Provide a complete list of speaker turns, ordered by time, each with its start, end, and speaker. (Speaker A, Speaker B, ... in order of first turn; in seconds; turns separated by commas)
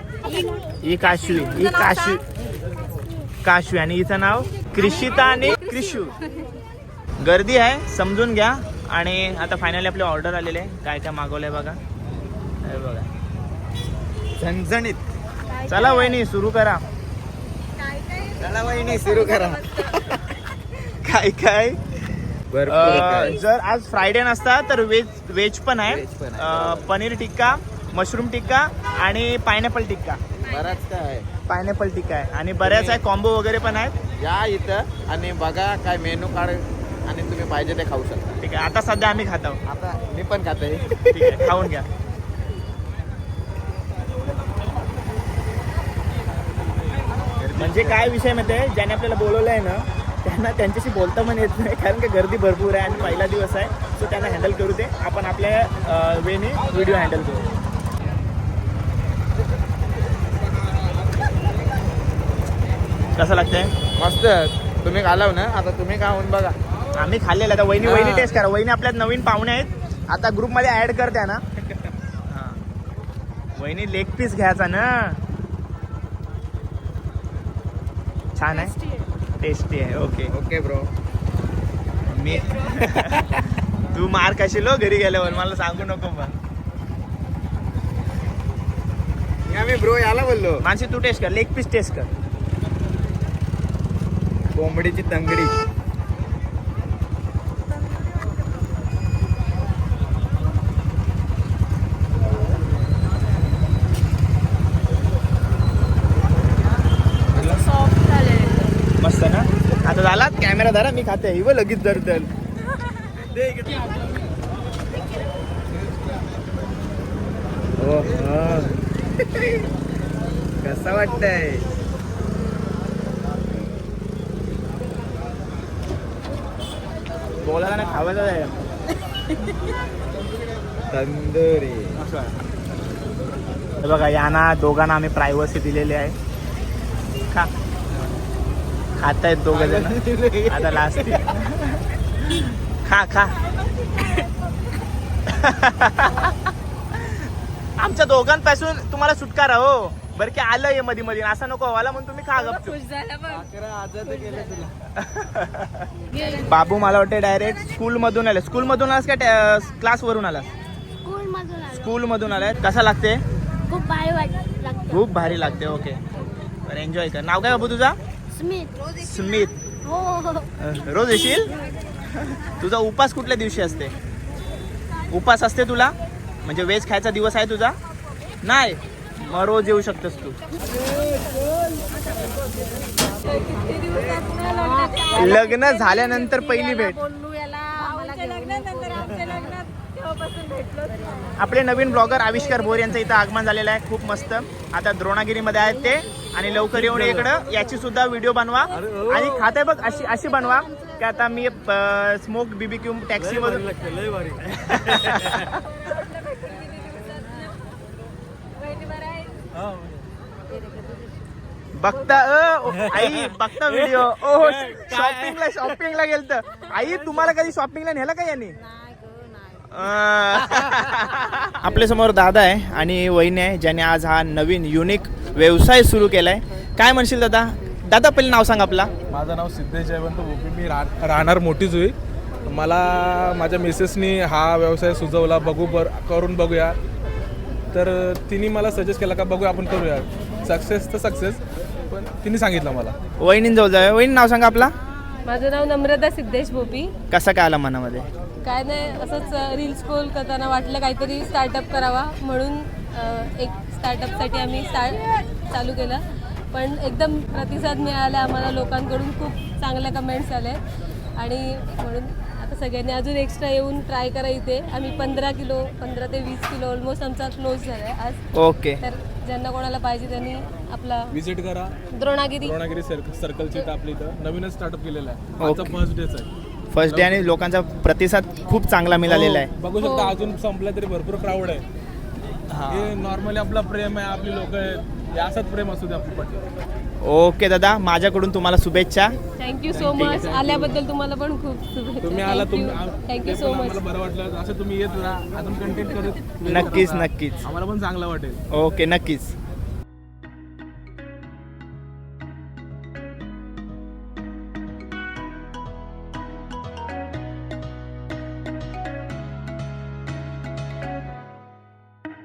Speaker A: 0.8-2.2, Speaker A: 3.4-6.2, Speaker A: 7.2-11.8, Speaker A: 12.6-13.1, Speaker B: 14.4-15.0, Speaker A: 15.6-16.8, Speaker B: 18.2-20.2, Speaker A: 20.7-21.8, Speaker B: 22.5-23.4, Speaker A: 22.7-30.2, Speaker B: 25.9-26.9, Speaker B: 30.4-31.3, Speaker A: 31.5-33.9, Speaker B: 32.6-33.0, Speaker B: 34.2-38.3, Speaker A: 38.4-39.6, Speaker B: 39.7-41.6, Speaker A: 41.1-41.9, Speaker B: 47.4-48.1, Speaker A: 47.6-57.5, Speaker A: 63.2-63.7, Speaker B: 64.0-66.5, Speaker A: 67.0-71.4, Speaker B: 67.8-68.4, Speaker A: 72.3-72.6, Speaker A: 73.6-75.2, Speaker A: 78.4-78.8, Speaker A: 79.4-80.3, Speaker B: 80.3-80.9, Speaker A: 82.1-83.4, Speaker B: 82.6-83.2, Speaker A: 83.9-86.3, Speaker B: 89.5-90.6, Speaker A: 90.6-92.1, Speaker B: 94.5-95.5, Speaker C: 107.4-107.8, Speaker A: 109.0-112.3, Speaker B: 113.2-113.8, Speaker B: 117.8-118.8, Speaker B: 120.6-121.7, Speaker A: 127.4-128.6, Speaker B: 130.9-132.0, Speaker A: 132.0-132.3, Speaker A: 133.8-136.2, Speaker A: 139.0-143.4, Speaker B: 139.5-141.2, Speaker A: 145.3-146.4, Speaker A: 147.0-147.2, Speaker A: 147.8-152.8, Speaker D: 152.4-153.5, Speaker B: 153.3-154.7, Speaker A: 154.9-160.5, Speaker D: 156.1-156.5, Speaker E: 161.0-161.9, Speaker A: 161.7-163.2, Speaker E: 163.7-164.9, Speaker A: 164.9-166.0, Speaker A: 166.7-168.0, Speaker E: 168.3-168.7, Speaker A: 169.0-169.6, Speaker E: 169.8-170.5, Speaker A: 170.6-171.5, Speaker A: 172.4-173.9, Speaker A: 175.1-177.8, Speaker A: 178.4-180.4, Speaker D: 183.3-185.2, Speaker E: 184.4-189.6, Speaker A: 185.1-187.0, Speaker D: 187.8-191.0, Speaker A: 191.4-203.7, Speaker B: 198.8-199.3, Speaker B: 203.9-204.4, Speaker A: 204.5-205.5, Speaker D: 205.8-207.5, Speaker D: 208.6-209.4, Speaker A: 211.8-218.6, Speaker C: 214.4-215.4, Speaker E: 218.9-219.6, Speaker A: 219.7-228.9, Speaker C: 229.1-231.9, Speaker C: 232.5-236.8, Speaker C: 237.7-243.0, Speaker A: 243.2-244.8, Speaker D: 245.2-246.9, Speaker A: 247.1-248.1, Speaker D: 248.4-260.6, Speaker D: 261.2-268.2, Speaker A: 268.4-268.8, Speaker D: 268.8-271.1, Speaker C: 271.1-271.8, Speaker D: 271.9-272.6, Speaker C: 272.4-276.3, Speaker A: 275.4-275.8, Speaker A: 276.7-279.5, Speaker C: 276.9-277.2, Speaker C: 279.1-281.6, Speaker D: 279.8-280.1, Speaker A: 282.5-282.9, Speaker C: 282.7-286.5, Speaker A: 287.0-289.1, Speaker D: 289.4-293.8, Speaker C: 289.7-290.8, Speaker C: 292.0-298.4, Speaker A: 296.5-297.4, Speaker A: 298.5-299.3